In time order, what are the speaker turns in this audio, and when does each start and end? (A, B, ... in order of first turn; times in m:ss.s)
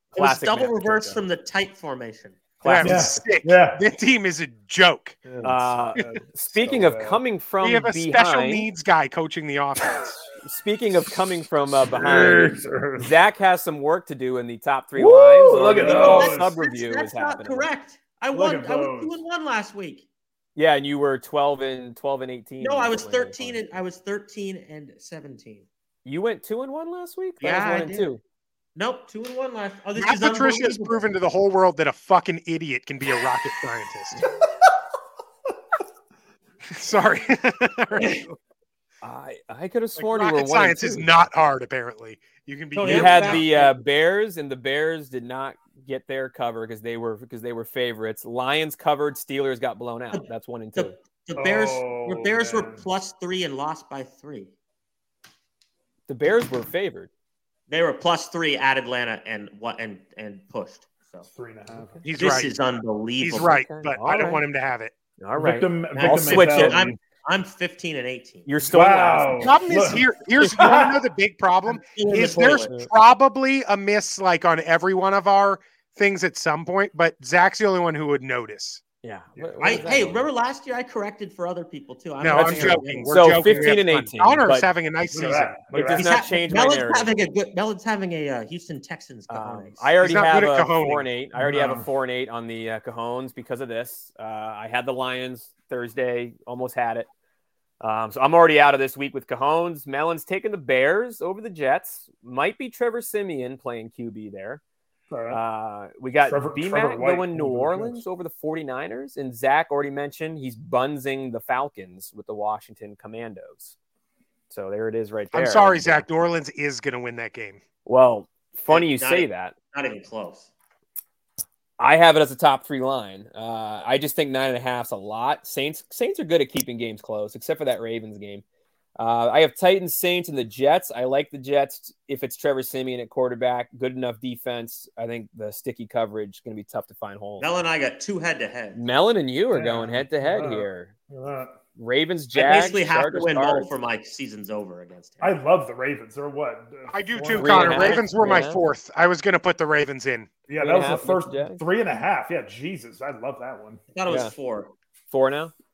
0:00.1-0:01.2 A
0:00.1-0:02.5 B
0:02.6-0:03.3 A
0:02.6-0:05.2 C
0:02.8-0:03.8 D
0:05.2-0:07.2 D
0:05.4-0:08.7 A
0:07.6-0:10.1 C
0:09.9-0:10.2 D
0:10.4-0:17.7 A
0:11.9-0:13.1 D
0:15.0-0:16.5 D
0:15.7-0:20.0 B
0:18.3-0:19.2 D
0:20.6-0:23.6 A
0:22.6-0:25.6 B
0:26.0-0:28.2 A
0:27.4-0:28.1 B
0:28.8-0:31.0 B
0:30.0-0:34.2 C
0:36.7-0:38.2 C
0:39.0-0:41.2 A
0:40.0-0:43.5 C
0:42.7-0:43.7 B
0:42.8-0:50.9 A
0:50.1-0:54.5 B
0:51.4-0:52.8 D
0:56.1-0:57.1 A
0:57.7-1:01.3 B
1:01.3-1:02.0 D
1:02.0-1:02.6 C
1:02.2-1:03.6 B
1:03.2-1:04.9 C
1:03.4-1:04.4 A
1:05.2-1:06.9 A
1:05.4-1:07.0 D
1:05.9-1:08.5 B
1:08.4-1:09.6 A
1:08.6-1:10.0 D
1:09.4-1:18.8 C
1:10.6-1:10.9 D
1:11.9-1:12.7 B
1:12.4-1:12.9 A
1:19.0-1:20.3 A
1:19.4-1:20.1 D
1:19.6-1:23.5 B
1:22.2-1:25.6 C
1:22.3-1:24.7 A
1:25.1-1:26.2 D
1:25.7-1:27.1 A
1:25.9-1:29.8 B
1:29.3-1:37.1 A
1:30.0-1:31.1 C
1:31.4-1:31.8 D
1:37.8-1:44.6 A
1:45.1-1:45.4 D
1:45.3-1:53.7 A
1:46.2-1:48.0 D
1:54.5-1:56.0 A
1:55.3-1:57.6 C
1:57.8-1:59.5 A
1:58.7-2:00.5 B
2:01.8-2:08.4 A
2:09.0-2:17.5 A
2:17.4-2:18.8 B
2:18.7-2:20.9 A
2:19.5-2:21.6 D
2:21.8-2:23.7 A
2:22.3-2:25.4 B
2:25.2-2:28.4 D
2:26.9-2:30.3 C
2:27.3-2:28.6 A
2:30.5-2:33.8 D
2:30.6-2:31.6 A
2:33.9-2:34.7 B
2:34.1-2:34.3 A
2:35.1-2:35.5 A